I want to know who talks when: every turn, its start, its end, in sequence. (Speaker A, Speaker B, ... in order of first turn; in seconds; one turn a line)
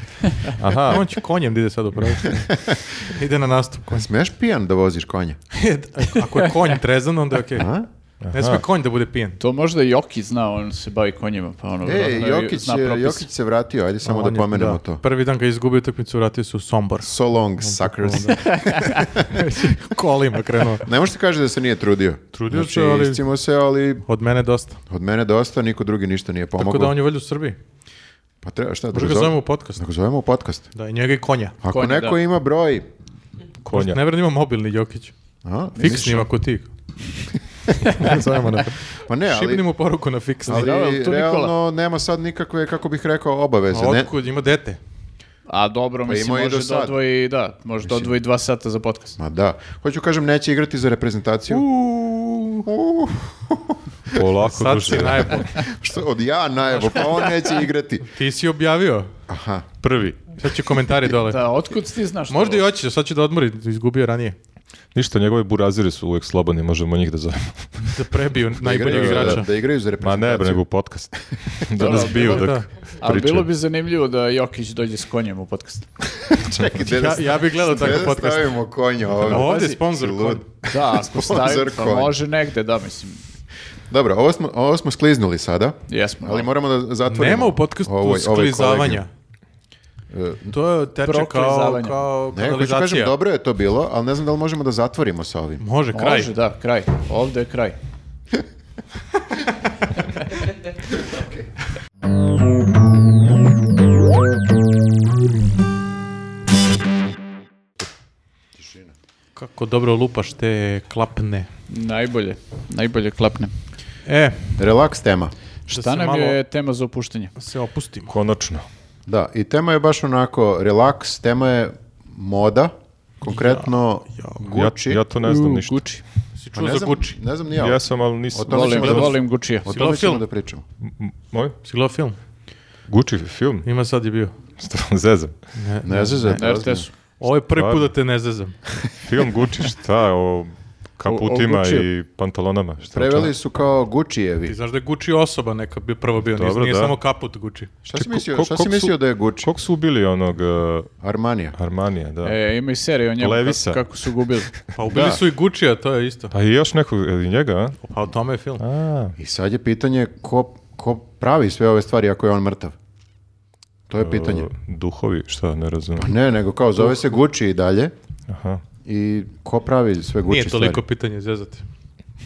Speaker A: 0.4-1.1
Speaker B: 0.6-4.1
Speaker C: 2.3-2.8
Speaker C: 3.9-5.4
Speaker B: 5.5-7.7
Speaker C: 7.5-7.9
Speaker A: 8.2-8.6
Speaker B: 8.3-9.4
Speaker D: 9.4-13.3
Speaker C: 11.8-15.0
Speaker B: 14.0-18.4
Speaker C: 17.0-19.3
Speaker D: 18.3-19.1
Speaker B: 19.2-20.9
Speaker C: 20.8-24.0
Speaker B: 22.3-23.2
Speaker B: 24.1-24.8
Speaker C: 24.9-26.9
Speaker B: 26.6-27.6
Speaker C: 28.4-30.6
Speaker B: 28.9-29.8
Speaker B: 30.7-31.6
Speaker C: 31.6-32.9
Speaker D: 31.7-32.2
Speaker A: 33.6-34.0
Speaker B: 33.7-35.1
Speaker C: 35.4-36.3
Speaker B: 35.8-36.7
Speaker C: 37.7-37.9
Speaker B: 37.9-40.7
Speaker C: 39.0-39.6
Speaker C: 40.4-44.1
Speaker D: 40.5-41.5
Speaker B: 43.7-44.8
Speaker D: 45.5-49.2
Speaker C: 46.0-47.0
Speaker C: 47.8-48.2
Speaker C: 49.2-54.3
Speaker A: 54.1-55.5
Speaker B: 54.4-55.6
Speaker C: 54.9-58.1
Speaker B: 56.7-57.3
Speaker B: 58.0-59.1
Speaker C: 59.3-59.7
Speaker A: 59.8-60.2
Speaker B: 60.4-61.4
Speaker D: 61.3-62.6
Speaker B: 62.3-64.4
Speaker A: 64.9-67.9
Speaker B: 67.9-69.4
Speaker C: 68.6-70.6
Speaker A: 68.7-69.4
Speaker A: 70.0-73.5
Speaker C: 71.8-72.1
Speaker D: 71.8-75.9
Speaker B: 71.8-72.7
Speaker C: 76.2-82.2
Speaker B: 76.7-78.5
Speaker B: 79.2-80.4
Speaker D: 79.3-79.8
Speaker D: 80.7-83.2
Speaker C: 83.9-89.0
Speaker D: 85.9-86.5
Speaker B: 87.0-89.1
Speaker C: 90.1-90.5
Speaker B: 90.5-93.1
Speaker D: 91.0-92.0
Speaker C: 92.3-95.6
Speaker B: 95.6-96.3
Speaker D: 95.9-97.8
Speaker B: 109.3-111.5
Speaker D: 111.7-113.5
Speaker B: 114.0-114.5
Speaker C: 114.6-115.3
Speaker D: 115.7-117.3
Speaker B: 115.7-116.4
Speaker B: 117.4-118.1
Speaker A: 118.1-118.7
Speaker C: 119.1-125.0
Speaker B: 123.3-124.4
Speaker A: 124.5-125.8
Speaker D: 125.2-126.0
Speaker B: 126.4-127.2
Speaker C: 126.5-130.6
Speaker A: 127.5-129.1
Speaker D: 128.4-129.7
Speaker B: 129.7-130.2
Speaker A: 130.9-131.6
Speaker B: 131.6-132.2
Speaker A: 132.9-133.7
Speaker B: 133.6-134.3
Speaker A: 134.6-135.3
Speaker B: 135.6-136.5
Speaker C: 135.8-136.9
Speaker D: 136.4-136.9
Speaker B: 137.2-138.6
Speaker A: 137.5-137.9
Speaker A: 139.0-143.3
Speaker D: 141.1-141.9
Speaker C: 142.9-144.6
Speaker B: 144.4-147.7
Speaker A: 146.4-146.9
Speaker C: 147.8-149.5
Speaker A: 147.9-150.9
Speaker C: 151.0-151.6
Speaker A: 151.6-152.4
Speaker D: 152.2-154.5
Speaker A: 153.2-153.8
Speaker B: 154.7-156.3
Speaker C: 154.9-155.2
Speaker A: 156.3-157.8
Speaker B: 157.8-158.6
Speaker A: 158.6-159.1
Speaker C: 159.2-162.7
Speaker C: 163.9-164.5
Speaker A: 164.0-166.1
Speaker C: 166.0-167.9
Speaker A: 168.3-168.6
Speaker C: 168.8-170.8
Speaker B: 170.3-171.6